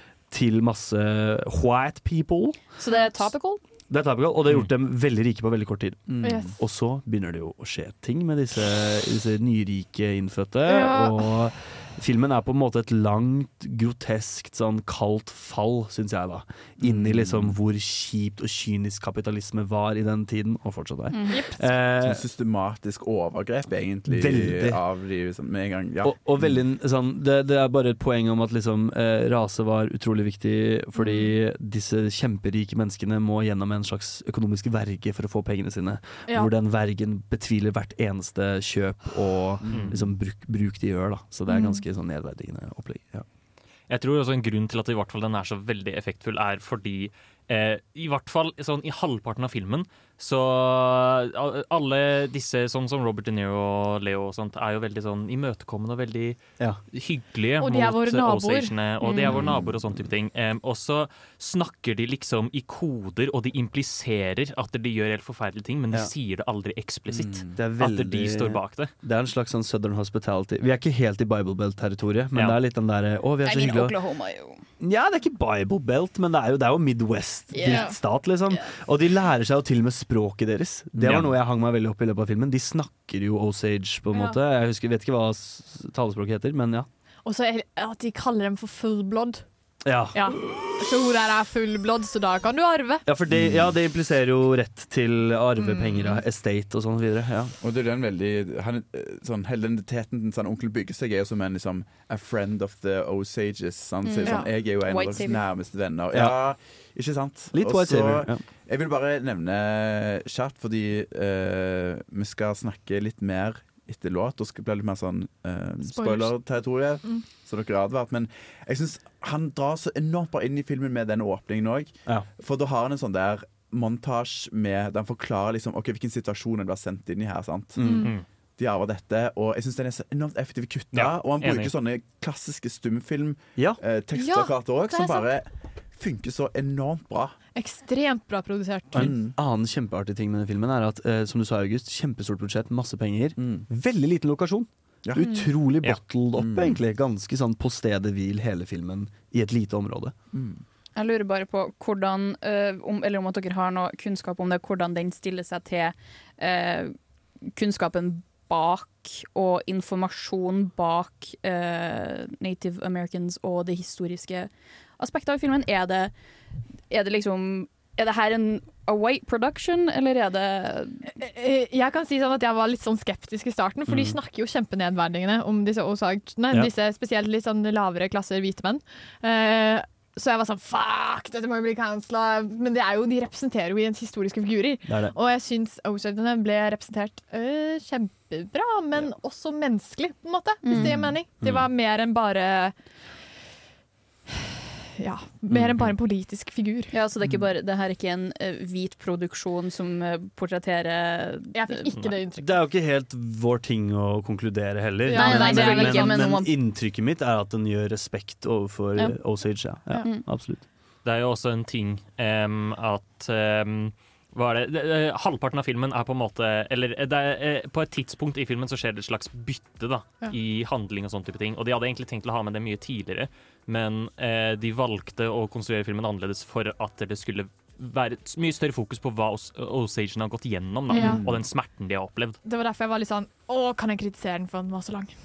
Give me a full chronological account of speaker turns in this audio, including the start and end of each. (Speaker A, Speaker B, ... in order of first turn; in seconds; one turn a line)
Speaker A: 0.3-2.6
Speaker B: 2.8-3.6
Speaker A: 3.9-22.2
Speaker C: 6.1-6.5
Speaker D: 6.2-6.5
Speaker D: 10.6-11.2
Speaker C: 16.8-17.6
Speaker B: 21.1-21.4
Speaker C: 22.0-26.6
Speaker A: 24.1-24.8
Speaker A: 26.0-43.2
Speaker D: 30.9-31.3
Speaker C: 39.6-40.1
Speaker D: 41.5-41.8
Speaker E: 43.9-56.4
Speaker E: 56.9-68.9
Speaker D: 57.6-59.1
Speaker B: 59.0-59.4
Speaker C: 59.2-60.1
Speaker C: 67.1-67.6
Speaker A: 67.5-74.0
Speaker B: 73.4-74.6
Speaker A: 74.8-86.9
Speaker B: 77.5-77.9
Speaker D: 77.6-78.0
Speaker C: 81.0-81.3
Speaker D: 84.1-84.4
Speaker D: 87.2-89.4
Speaker A: 89.8-91.0
Speaker D: 90.1-93.0
Speaker A: 93.1-97.5
Speaker C: 93.3-93.8
Speaker D: 95.6-96.2
Speaker C: 97.6-127.9
Speaker B: 104.0-105.4
Speaker D: 104.2-104.5
Speaker A: 107.5-108.4
Speaker D: 115.8-116.3
Speaker A: 127.8-128.1
Speaker D: 127.8-128.1
Speaker C: 128.6-137.3
Speaker E: 130.9-131.7
Speaker D: 134.2-135.3
Speaker D: 137.6-139.1
Speaker A: 138.9-150.1
Speaker C: 138.9-139.3
Speaker C: 143.4-143.6
Speaker C: 145.0-145.3
Speaker B: 145.2-145.5
Speaker C: 146.3-146.8
Speaker C: 150.3-150.6
Speaker B: 150.9-156.9
Speaker B: 157.5-166.1
Speaker B: 166.9-171.0
Speaker D: 171.1-192.7
Speaker A: 173.9-174.1
Speaker A: 184.8-185.1
Speaker B: 190.6-191.1
Speaker D: 195.0-196.9
Speaker B: 196.9-202.1
Speaker D: 201.5-202.5
Speaker A: 202.4-210.6
Speaker D: 205.0-206.3
Speaker B: 205.1-206.6
Speaker E: 211.0-232.4
Speaker D: 230.9-231.2
Speaker C: 231.0-231.4
Speaker D: 232.4-235.1